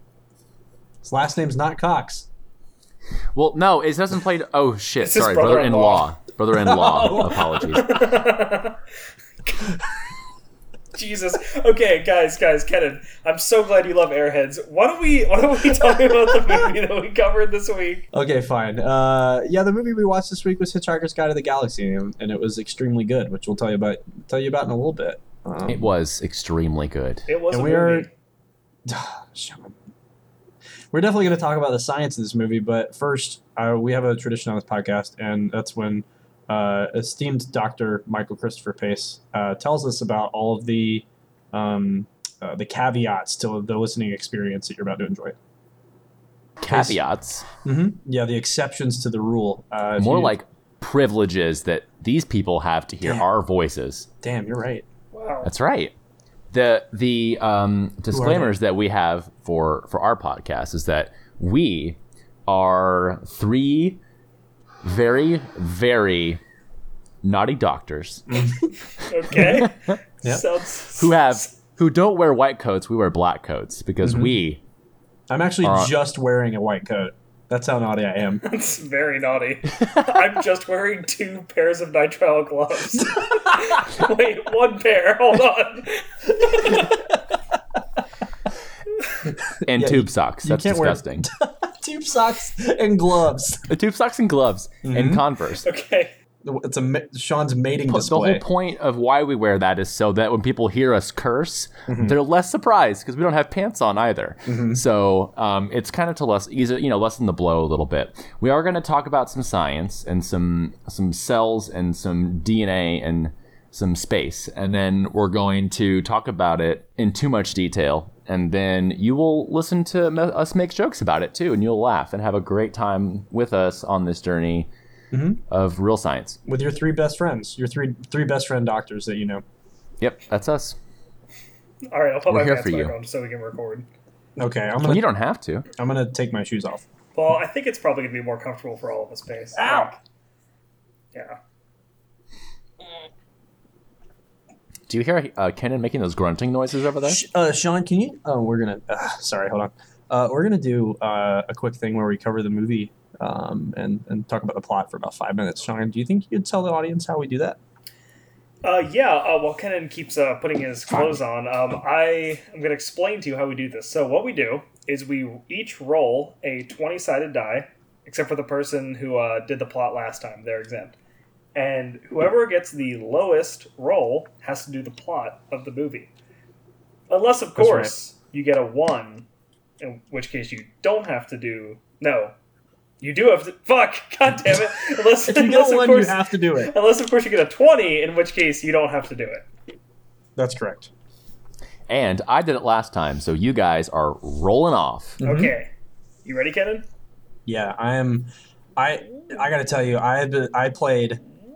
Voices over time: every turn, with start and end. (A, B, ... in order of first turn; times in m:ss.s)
0:01.0-0:02.3 A
0:03.3-0:08.0 B
0:05.0-0:06.1 C
0:06.6-0:07.6 A
0:07.7-0:08.8 C
0:10.9-0:18.0 C
0:18.1-0:25.8 A
0:25.7-0:27.3 B
0:27.3-0:28.1 C
0:27.5-0:28.1 A
0:28.8-0:29.8 A
0:30.9-0:45.4 A
0:46.6-0:47.4 B
0:46.7-0:47.0 A
0:47.6-0:50.4 A
0:50.0-0:54.1 B
0:54.2-0:54.8 A
0:55.1-0:55.5 C
0:55.4-0:55.9 B
0:56.5-1:04.0 B
0:58.1-0:58.5 A
1:04.8-1:06.4 B
1:07.2-1:08.4 B
1:08.3-1:08.7 A
1:09.0-1:11.5 C
1:09.4-1:09.7 B
1:10.9-1:14.6 B
1:14.0-1:14.3 A
1:15.3-1:18.4 A
1:15.6-1:15.9 B
1:18.4-1:27.1 C
1:29.6-1:31.3 B
1:29.7-1:33.6 A
1:33.7-1:35.6 B
1:34.8-1:35.2 A
1:35.6-1:36.1 C
1:36.4-1:38.4 A
1:37.9-2:04.7 B
1:41.9-1:42.2 A
1:44.4-1:44.8 A
2:05.1-2:05.4 A
2:05.5-2:06.4 B
2:06.5-2:09.4 A
2:10.0-2:10.8 B
2:11.9-2:13.9 C
2:12.3-2:12.9 B
2:14.4-2:15.0 A
2:14.8-2:15.6 B
2:15.8-2:16.8 A
2:17.1-2:20.0 C
2:19.5-2:20.0 A
2:24.9-2:27.2 B
2:27.0-2:37.6 A
2:38.6-2:51.0 C
2:51.5-2:56.1 C
2:57.1-2:59.3 C
2:57.6-2:57.9 A
2:59.8-3:02.3 C
3:03.0-3:09.4 C
3:05.2-3:06.7 A
3:10.4-3:10.9 A
3:11.9-3:15.2 B
3:15.2-3:15.5 A
3:15.2-3:15.7 C
3:16.2-3:16.8 C
3:17.4-3:21.2 A